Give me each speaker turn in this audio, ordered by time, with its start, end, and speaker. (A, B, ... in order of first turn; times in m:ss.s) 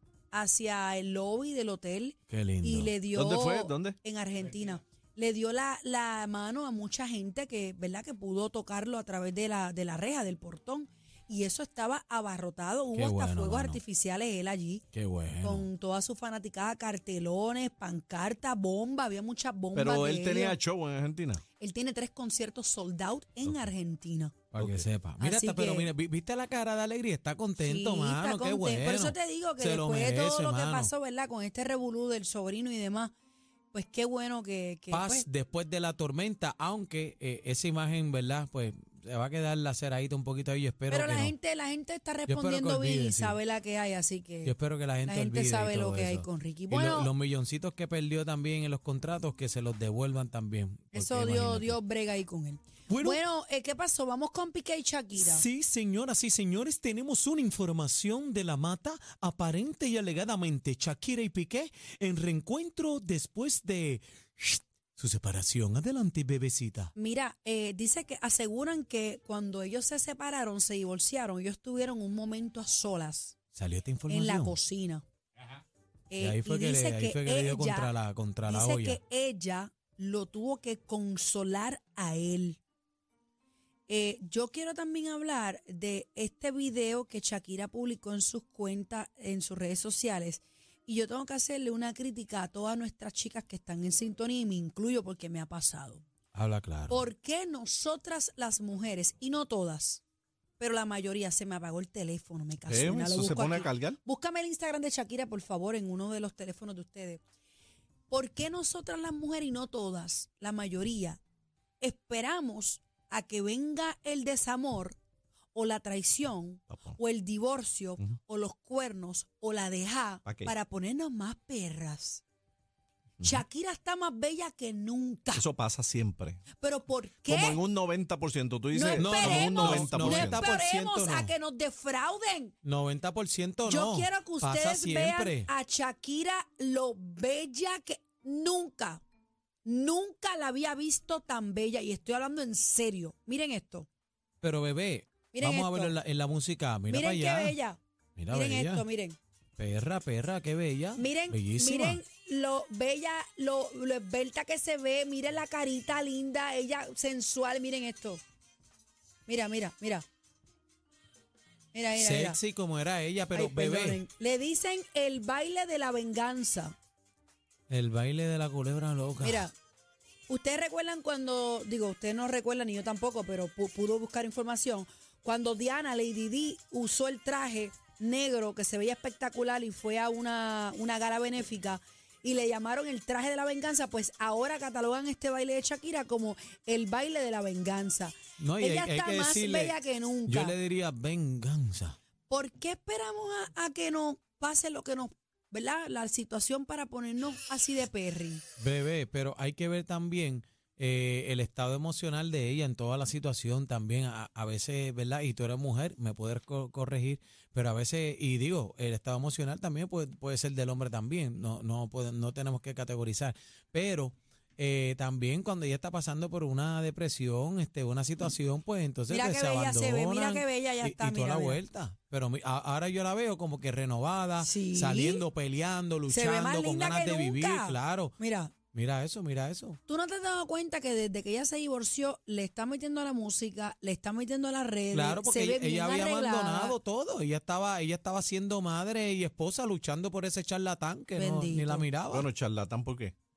0:00.3-0:14.8 A
0:02.3-0:02.9 B
0:03.1-0:04.0 C
0:12.9-0:13.8 B
0:14.9-0:15.6 B
0:15.4-0:20.6 A
0:19.7-0:21.4 C
0:21.6-0:24.3 A
0:24.5-0:30.9 B
0:24.6-0:24.9 C
0:25.2-0:25.9 A
0:27.6-0:33.1 A
0:33.7-0:35.2 A
0:34.9-0:41.3 B
0:40.9-0:47.1 A
0:42.3-0:43.4 B
0:44.4-0:51.8 B
0:50.9-0:55.4 A
0:52.9-0:53.2 B
0:55.2-1:06.9 B
1:07.0-1:13.3 A
1:13.5-1:14.6 B
1:14.1-1:15.0 A
1:16.1-1:17.9 A
1:16.2-1:19.0 B
1:18.4-1:22.6 A
1:23.9-1:36.0 A
1:36.3-1:37.0 B
1:36.9-1:40.0 A
1:40.6-1:47.2 A
1:42.6-1:44.0 C
1:48.1-1:51.2 A
1:51.8-1:55.0 A
1:55.5-2:02.2 A
1:56.7-1:57.0 C
2:00.2-2:00.5 C
2:03.2-2:05.4 A
2:05.3-2:06.4 C
2:06.6-2:07.6 A
2:07.3-2:10.5 C
2:08.7-2:12.5 A
2:09.0-2:11.3 B
2:12.6-2:15.5 B
2:13.6-2:19.0 A
2:19.6-2:23.9 A
2:24.4-2:27.6 B
2:25.3-2:26.0 A
2:26.9-2:27.8 A
2:28.2-2:28.8 B
2:28.3-2:29.2 A
2:29.6-2:32.0 B
2:31.0-2:38.2 A
2:39.2-2:40.0 A
2:41.7-2:42.4 A
2:42.0-2:44.0 B
2:43.3-2:46.8 A
2:47.7-2:49.4 B
2:49.2-2:49.5 A
2:50.3-3:10.5 A
3:08.4-3:12.0 B
3:12.3-3:18.4 A
3:18.6-3:48.1 B
3:39.1-3:41.6 A
3:44.4-3:45.2 A
3:46.1-3:48.5 A
3:48.7-3:49.8 B
3:49.9-3:56.8 A
3:54.9-4:02.3 B
4:01.2-4:01.9 A
4:02.1-4:03.1 C